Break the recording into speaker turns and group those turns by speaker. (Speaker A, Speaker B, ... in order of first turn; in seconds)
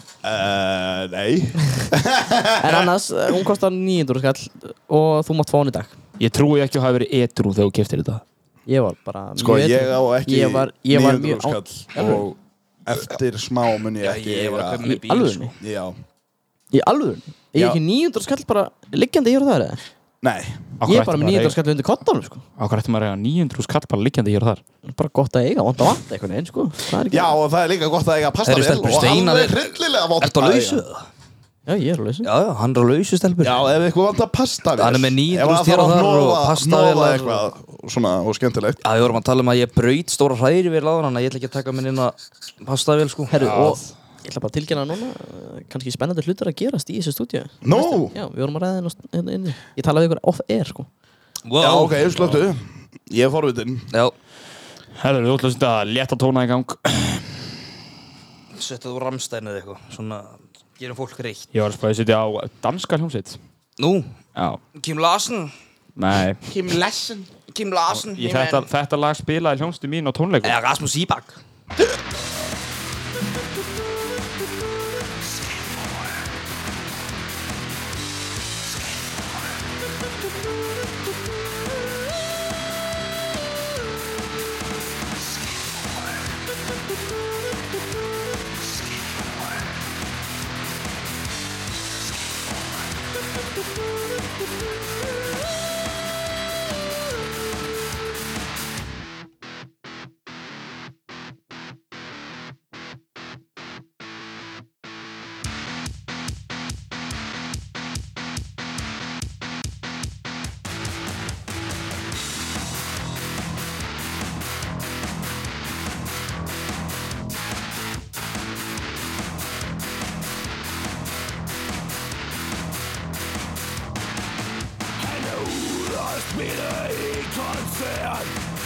Speaker A: 0.2-2.9, 9.4-12.3, 12.8-14.8, 15.6-16.0, 17.5-17.8, 20.2-20.7, 27.1-30.8, 33.4-38.8, 47.6-48.1, 51.6-53.9, 66.5-67.3
Speaker B: 2.6-5.9, 8.7-12.2, 14.8-15.5, 16.7-19.8, 20.8-22.4, 24.9-27.3, 31.7-32.3, 43.3-50.9
Speaker C: 6.2-8.2, 20.8-21.6, 22.6-24.6, 43.4-43.9, 55.0-57.3, 61.5-63.4, 64.3-64.6, 66.0-66.4, 67.9-70.5
Speaker D: 14.0-15.5, 28.4-31.0, 32.2-33.6, 34.8-37.4, 38.8-43.3, 51.5-52.1, 58.5-61.5, 63.8-64.1, 64.8-65.5, 67.5-68.7, 70.4-71.4
Speaker E: 125.0-128.3